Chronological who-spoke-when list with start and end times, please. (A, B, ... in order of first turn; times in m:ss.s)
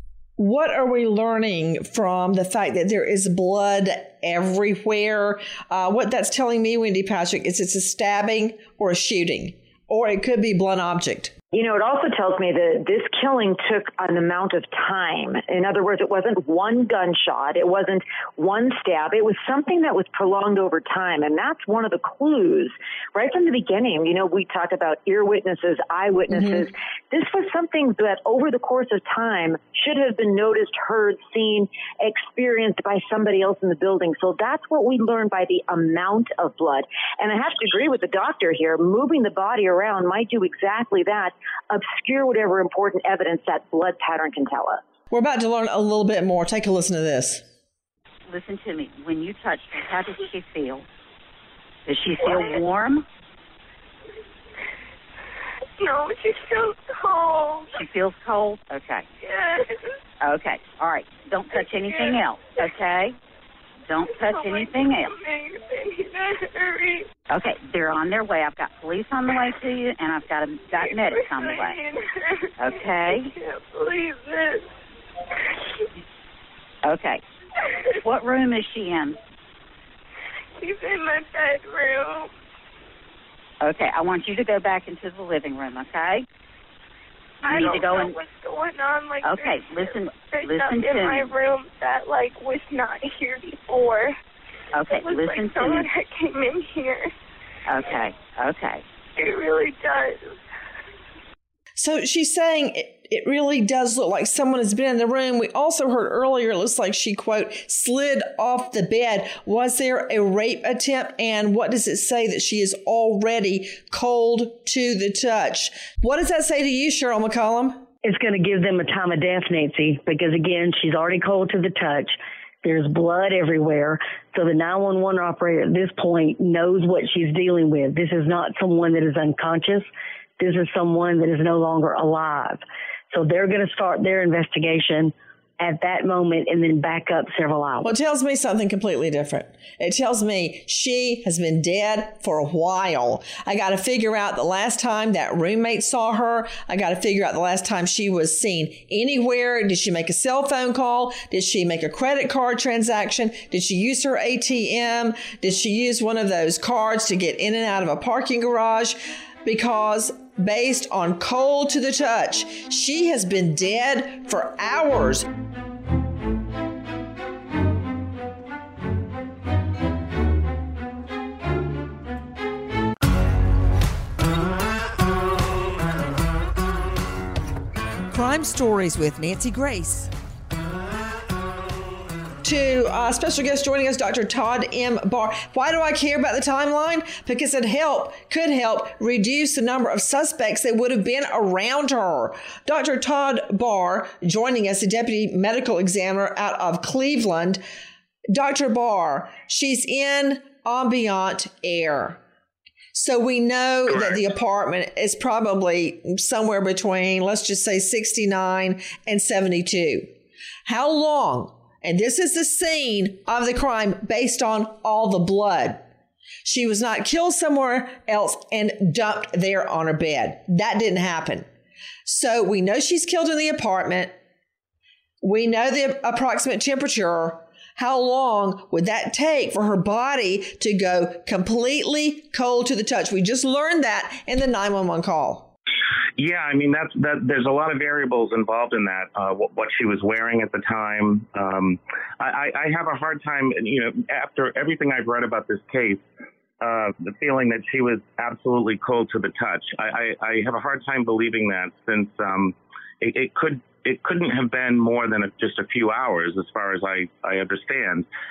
0:00.4-0:11.3 A
0:11.5-0:44.8 B
0:45.1-0:47.4 A
0:48.3-0:50.9 C
0:51.9-0:53.0 C
0:52.2-0:52.6 D
0:55.8-0:57.8 D
0:57.7-0:59.1 C
0:59.2-1:00.0 D
1:00.2-1:03.2 C
1:01.8-1:02.2 D
1:03.9-1:05.1 C
1:04.0-1:07.1 D
1:07.3-1:11.8 C
1:10.7-1:14.7 D
1:12.6-1:13.3 C
1:16.8-1:17.2 C
1:18.0-1:19.2 C
1:20.6-1:22.3 D
1:23.6-1:26.2 C
1:27.4-1:34.2 D
1:27.4-1:28.2 C
1:29.2-1:31.3 C
1:34.7-1:35.9 C
1:34.9-1:37.1 D
1:37.7-1:38.8 C
1:39.2-1:40.4 D
1:41.8-1:57.8 A
1:58.0-2:09.9 E
2:10.4-2:17.9 E
2:17.8-2:45.3 A
2:58.1-3:00.1 F
3:02.4-3:17.6 A
3:18.3-3:22.2 A
3:22.9-3:30.1 A
3:30.6-3:35.8 A
3:36.4-3:41.5 A
3:42.0-3:44.1 A
3:45.2-3:55.5 A
3:56.2-4:06.0 G
4:06.6-4:18.1 G